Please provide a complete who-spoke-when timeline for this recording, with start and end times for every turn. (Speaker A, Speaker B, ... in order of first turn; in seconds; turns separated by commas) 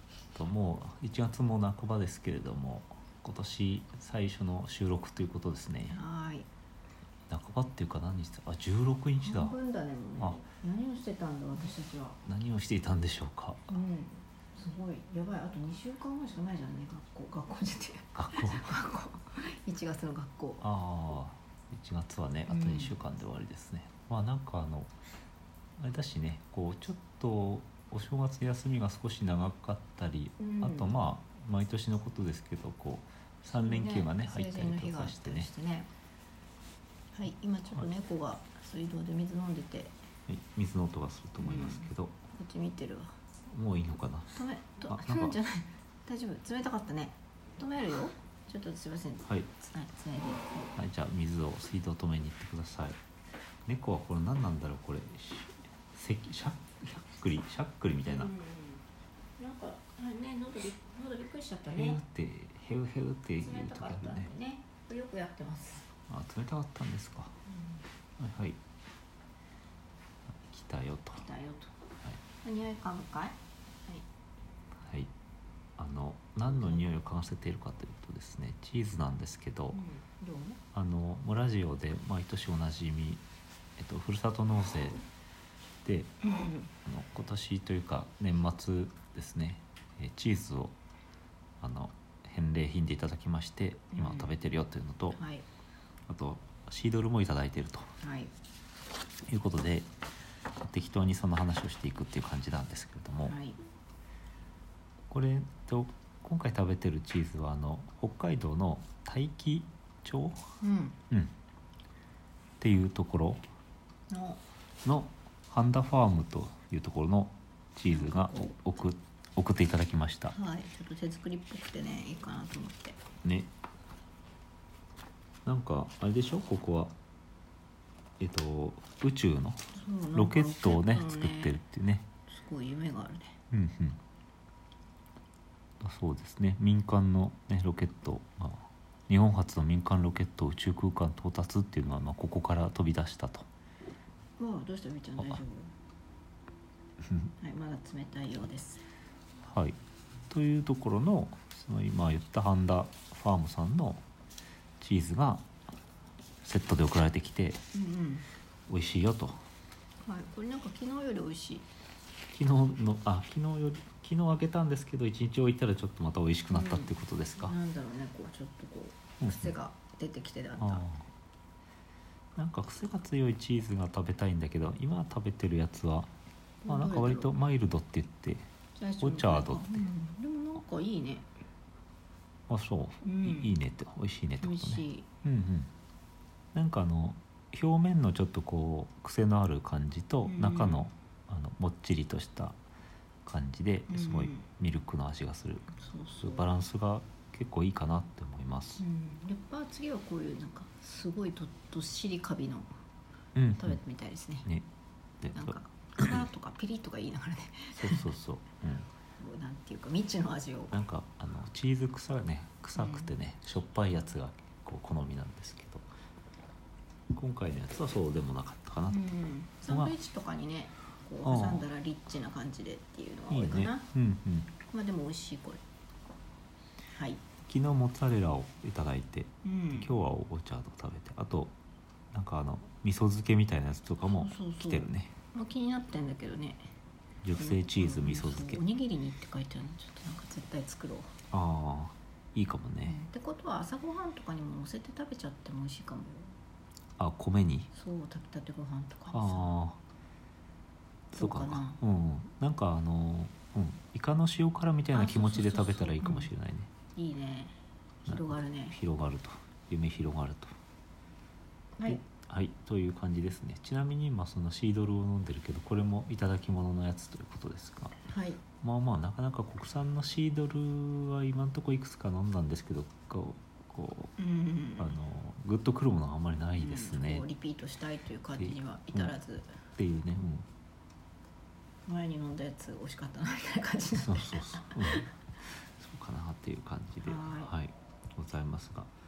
Speaker A: 0.3-6.0, Speaker B: 5.9-6.5, Speaker A: 7.3-9.6, Speaker B: 9.2-12.2, Speaker A: 10.2-10.4, Speaker A: 12.2-13.7, Speaker B: 13.7-20.6, Speaker A: 18.1-18.8, Speaker A: 20.6-24.9, Speaker B: 22.5-23.0, Speaker A: 25.8-35.5, Speaker B: 30.4-30.9, Speaker B: 33.5-35.9, Speaker B: 37.1-40.0, Speaker A: 40.3-42.2, Speaker B: 41.4-43.2, Speaker A: 43.5-45.4, Speaker B: 44.3-50.7, Speaker A: 50.8-53.0, Speaker A: 53.7-58.3, Speaker B: 58.1-58.9, Speaker B: 59.4-62.0, Speaker A: 61.7-64.3, Speaker B: 63.4-65.9, Speaker A: 66.1-67.4, Speaker B: 67.5-67.8, Speaker A: 68.2-68.6, Speaker A: 70.5-71.2, Speaker B: 71.2-71.7, Speaker B: 72.4-74.1, Speaker A: 74.8-75.1, Speaker A: 75.8-79.8, Speaker B: 79.7-80.6, Speaker A: 80.7-83.2, Speaker A: 83.8-85.0, Speaker A: 85.8-86.1, Speaker B: 86.2-86.7, Speaker A: 86.8-90.8, Speaker A: 91.6-95.2, Speaker B: 93.9-94.3, Speaker B: 95.1-95.5, Speaker A: 96.1-97.9, Speaker B: 98.0-98.3, Speaker A: 99.3-99.9, Speaker A: 100.6-103.4, Speaker B: 103.3-103.6, Speaker A: 105.1-110.6, Speaker B: 110.6-111.0, Speaker A: 112.6-113.5, Speaker B: 114.1-114.4, Speaker A: 114.8-120.3, Speaker B: 117.9-118.6, Speaker B: 120.3-123.0, Speaker A: 123.2-123.5, Speaker A: 125.5-126.9, Speaker A: 128.2-132.1, Speaker B: 129.7-131.6, Speaker B: 132.3-133.4, Speaker A: 133.5-134.0, Speaker A: 135.8-143.5, Speaker B: 144.4-145.7, Speaker B: 147.4-148.8, Speaker A: 149.4-149.8, Speaker A: 150.3-154.0, Speaker A: 154.8-155.5, Speaker A: 156.4-157.6, Speaker B: 157.7-158.3, Speaker A: 158.7-159.4, Speaker B: 160.0-161.7, Speaker A: 162.3-167.6, Speaker B: 166.5-170.9, Speaker A: 169.2-169.5, Speaker A: 170.6-171.1, Speaker A: 172.4-176.1, Speaker B: 176.6-177.3, Speaker A: 176.7-178.5, Speaker B: 178.8-181.3, Speaker A: 179.0-179.9, Speaker A: 182.5-185.7, Speaker B: 183.0-183.5, Speaker B: 184.4-185.1, Speaker A: 186.5-192.6, Speaker B: 190.2-190.9, Speaker A: 193.3-198.8, Speaker B: 193.9-194.4, Speaker B: 195.8-196.5, Speaker B: 198.8-202.7, Speaker A: 203.3-203.8, Speaker B: 203.6-204.5, Speaker A: 205.2-206.3, Speaker B: 205.3-208.1, Speaker A: 207.8-208.9, Speaker B: 209.2-210.8, Speaker A: 210.7-215.8, Speaker B: 212.8-213.1, Speaker A: 217.1-219.1, Speaker B: 218.9-223.9, Speaker A: 219.7-219.9, Speaker A: 221.2-221.7, Speaker A: 223.3-224.5, Speaker B: 224.7-225.6, Speaker B: 226.9-227.2, Speaker A: 227.4-231.6, Speaker B: 229.4-229.9, Speaker A: 232.1-235.1, Speaker B: 234.1-236.7, Speaker A: 237.2-238.6, Speaker B: 237.3-241.1, Speaker A: 241.3-243.0, Speaker B: 242.8-246.3, Speaker A: 247.0-247.7, Speaker B: 247.7-249.4, Speaker A: 249.1-249.8, Speaker A: 251.1-256.7, Speaker B: 251.2-251.8, Speaker B: 254.9-256.3, Speaker B: 256.9-258.8, Speaker A: 258.1-260.6, Speaker A: 261.9-268.0, Speaker B: 268.1-268.4, Speaker A: 268.6-274.1, Speaker B: 274.2-275.0, Speaker A: 274.8-277.3, Speaker B: 276.6-279.6, Speaker A: 278.4-279.2, Speaker A: 279.8-280.5, Speaker B: 281.9-285.1, Speaker A: 283.9-288.9, Speaker B: 287.0-287.5